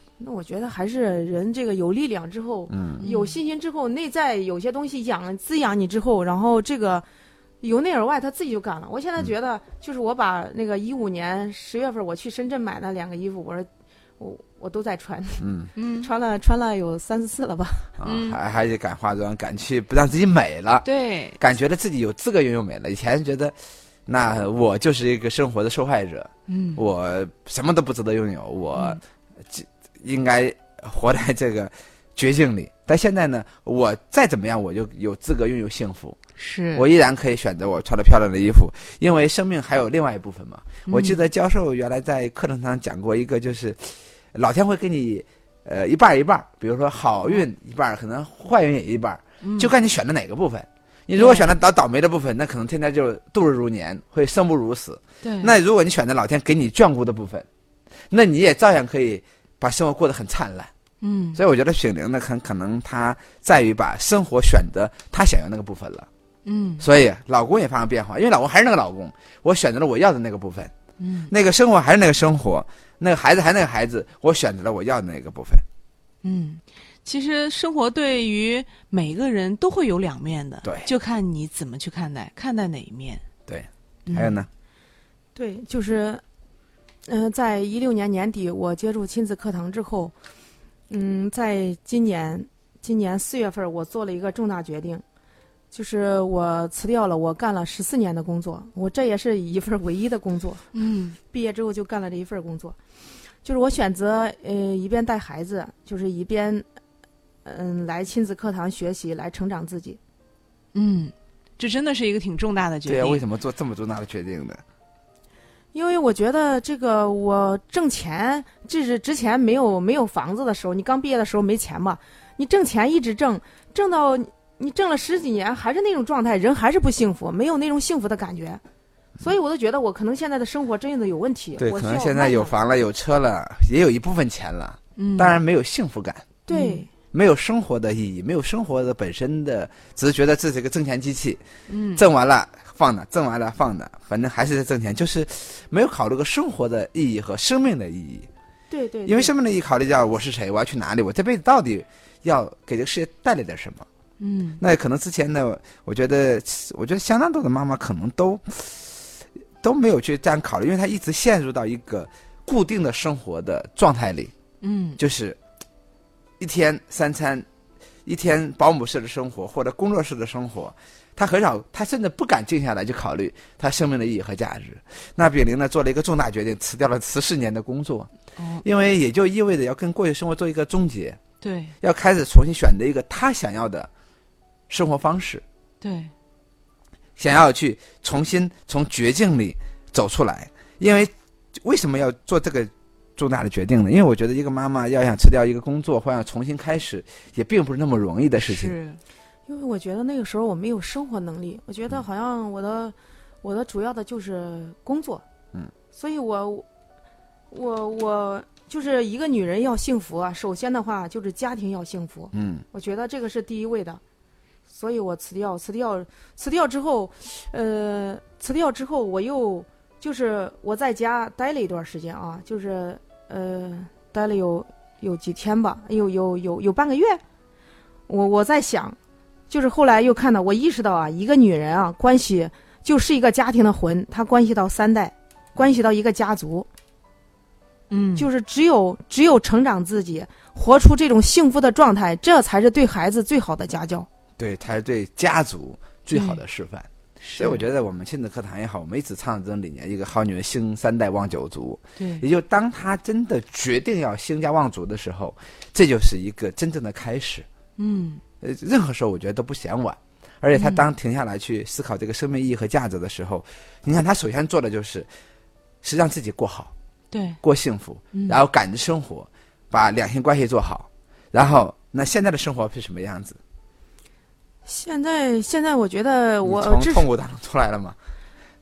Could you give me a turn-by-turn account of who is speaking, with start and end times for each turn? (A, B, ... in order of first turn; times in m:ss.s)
0:00.2-0:07.0 A
0:02.7-0:03.0 B
0:03.0-0:03.4 C
0:07.6-0:13.7 A
0:14.2-0:15.4 A
0:15.4-0:15.7 B
0:15.8-0:16.1 C
0:16.0-0:17.9 A
0:18.0-0:20.9 B
0:18.0-0:18.4 C
0:20.8-0:21.4 C
0:21.4-0:23.5 B
0:24.1-0:36.2 B
0:26.5-0:26.8 C
0:28.7-0:29.0 C
0:36.4-0:36.8 C
0:36.7-0:57.5 B
0:40.9-0:41.2 C
0:49.4-0:49.7 C
0:51.1-0:51.5 C
0:55.2-0:55.6 C
0:58.1-1:00.7 B
1:01.0-1:01.4 C
1:01.4-1:06.1 B
1:06.5-1:06.9 C
1:06.8-1:10.7 B
1:11.0-1:11.3 C
1:11.3-1:15.6 B
1:16.2-1:23.2 C
1:20.6-1:20.9 B
1:23.5-1:24.5 B
1:24.1-1:24.4 C
1:25.4-1:26.2 A
1:27.1-1:30.1 A
1:30.9-1:35.0 A
1:35.7-1:40.6 A
1:40.7-1:41.2 C
1:41.3-1:42.8 A
1:43.4-1:46.6 A
1:47.4-1:50.0 A
1:50.7-1:53.2 C
1:52.9-1:54.6 B
1:55.7-2:08.6 A
2:09.2-2:12.5 A
2:11.6-2:16.2 B
2:15.0-2:15.4 C
2:16.5-2:16.9 A
2:16.5-2:16.8 C
2:17.1-2:21.4 B
2:21.7-2:22.0 C
2:22.0-2:28.3 B
2:28.7-2:29.3 A
2:29.1-2:33.9 B
2:34.2-2:34.6 C
2:34.6-2:39.0 B
2:39.6-2:44.3 B
2:44.6-2:45.0 C
2:45.0-2:45.4 B
2:46.4-2:47.5 B
2:48.1-2:58.1 B
2:58.4-2:58.6 C
2:58.6-3:01.2 B
3:01.4-3:01.7 C
3:01.8-3:03.9 B
3:04.7-3:05.4 B
3:05.8-3:06.1 C
3:07.2-3:18.8 B
3:18.4-3:19.0 C
3:19.5-3:25.2 A
3:25.9-3:26.7 A
3:27.5-3:34.0 A
3:32.3-3:32.6 B
3:34.7-3:47.2 A
3:48.1-3:49.0 A
3:49.5-3:56.7 A
3:57.9-3:58.3 C
3:58.2-4:04.1 A
4:04.4-4:17.5 B
4:06.1-4:06.4 C
4:07.2-4:07.6 C
4:12.0-4:12.2 C
4:17.8-4:18.2 C
4:18.4-4:25.1 B
4:20.5-4:20.8 C
4:25.8-4:26.7 B
4:27.1-4:27.4 C
4:27.4-4:33.4 B
4:28.1-4:28.4 C
4:34.7-4:37.1 A
4:36.4-4:38.0 B